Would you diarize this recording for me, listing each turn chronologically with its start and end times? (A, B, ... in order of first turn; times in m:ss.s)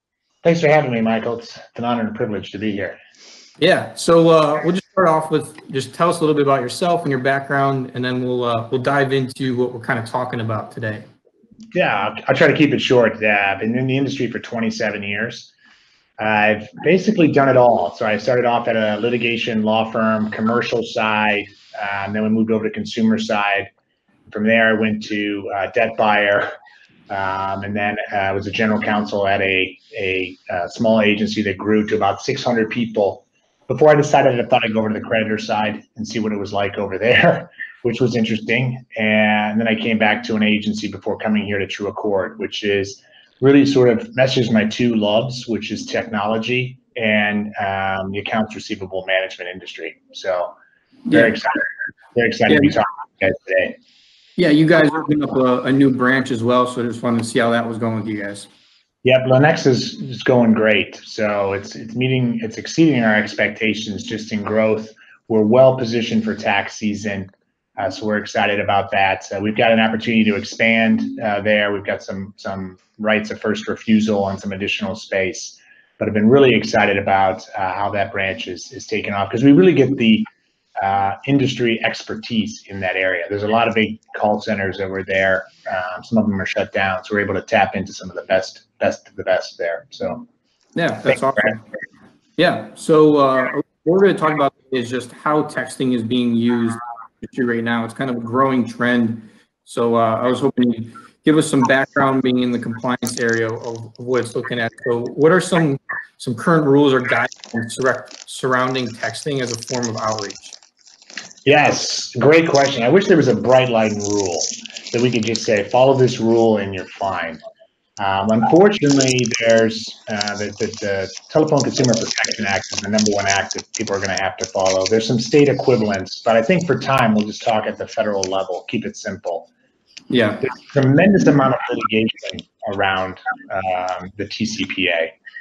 0:00.4-0:03.0 A
0:03.6-0:11.0 B
0:11.7-0:15.5 A
0:16.2-0:23.7 A
0:24.3-0:26.5 A
0:27.1-0:50.5 A
0:51.1-0:51.4 B
0:51.1-0:53.8 A
0:52.5-0:52.8 B
0:54.4-0:58.5 B
0:59.0-1:20.3 A
1:20.8-1:30.3 A
1:30.8-1:31.6 B
1:31.1-1:31.6 A
1:32.4-1:50.6 B
1:51.4-1:57.4 A
1:58.0-2:09.5 A
2:10.1-2:10.5 B
2:10.4-2:15.1 A